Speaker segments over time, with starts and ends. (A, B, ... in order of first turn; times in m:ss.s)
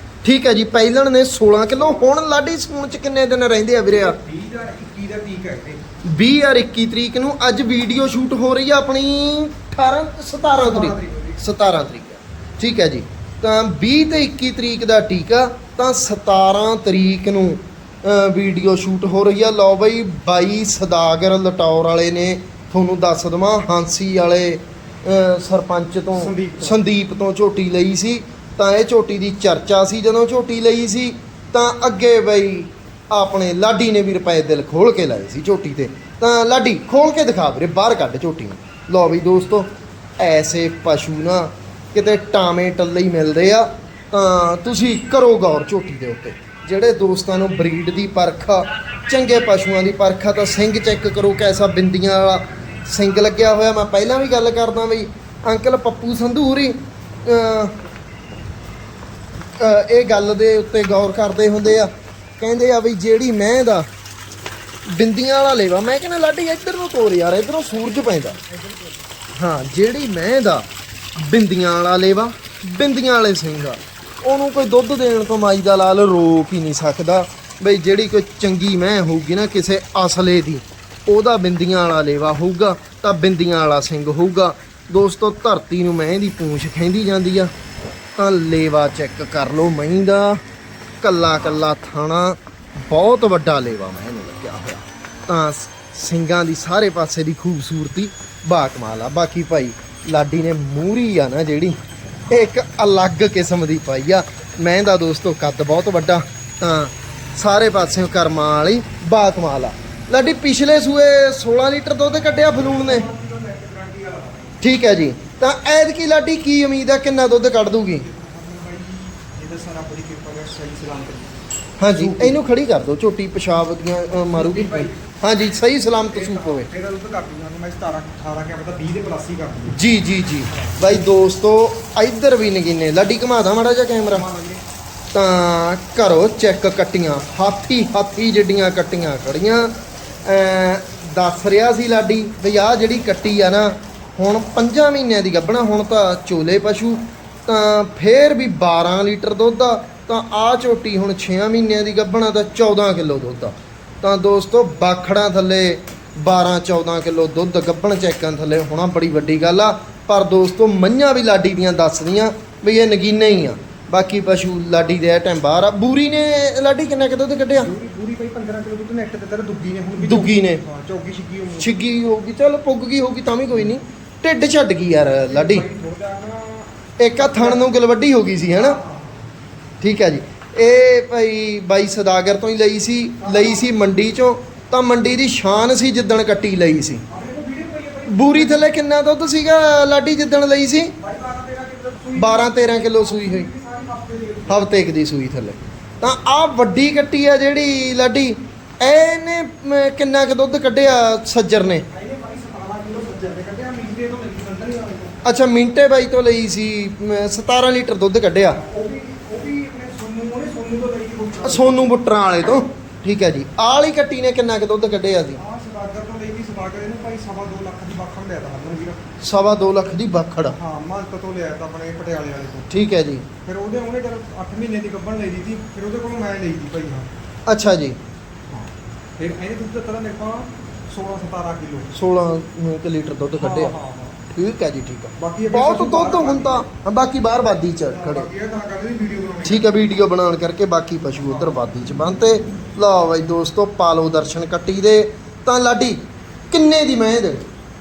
0:00.2-0:04.2 A
0:01.6-0:02.1 B
0:03.9-0:05.8 B
0:06.0-0:39.7 A
0:10.5-0:11.4 B
0:26.1-0:26.8 B
0:40.2-0:57.7 A
0:59.6-1:03.9 A
1:04.9-1:08.4 A
1:08.0-1:08.9 B
1:09.4-1:10.6 A
1:11.2-1:27.5 A
1:28.2-1:30.4 A
1:31.0-1:41.8 A
1:42.3-1:53.1 A
1:52.5-1:54.6 B
1:54.6-1:58.0 A
1:58.0-2:01.3 B
2:01.8-2:06.7 A
2:01.9-2:02.4 B
2:04.3-2:05.0 B
2:06.0-2:09.8 B
2:09.7-2:14.2 A
2:14.1-2:14.6 B
2:15.1-2:19.7 A
2:20.2-2:47.7 A
2:47.6-2:51.7 B
2:50.0-2:50.6 A
2:51.6-2:55.6 A
2:55.3-2:56.7 B
2:57.0-2:58.8 A
2:57.2-2:57.7 B
2:58.5-2:59.2 B
2:59.8-3:07.0 A
3:03.2-3:03.7 B
3:07.1-3:08.7 B
3:08.1-3:10.9 A
3:11.0-3:14.7 B
3:12.2-3:13.5 A
3:14.5-3:21.8 A
3:21.9-3:25.2 B
3:25.2-3:28.6 A
3:28.6-3:32.0 B
3:31.4-3:35.4 A
3:35.4-3:39.0 B
3:39.2-3:40.6 A
3:40.5-3:42.7 B
3:42.7-3:43.2 A
3:43.4-3:47.1 B
3:47.5-3:48.0 A
3:48.5-3:51.9 B
3:51.9-3:53.7 A
3:53.4-3:54.2 B
3:54.3-3:58.3 A
3:55.2-3:56.7 B
3:57.8-3:59.7 B
3:59.4-4:06.0 A
4:01.2-4:01.6 B
4:06.5-4:07.4 A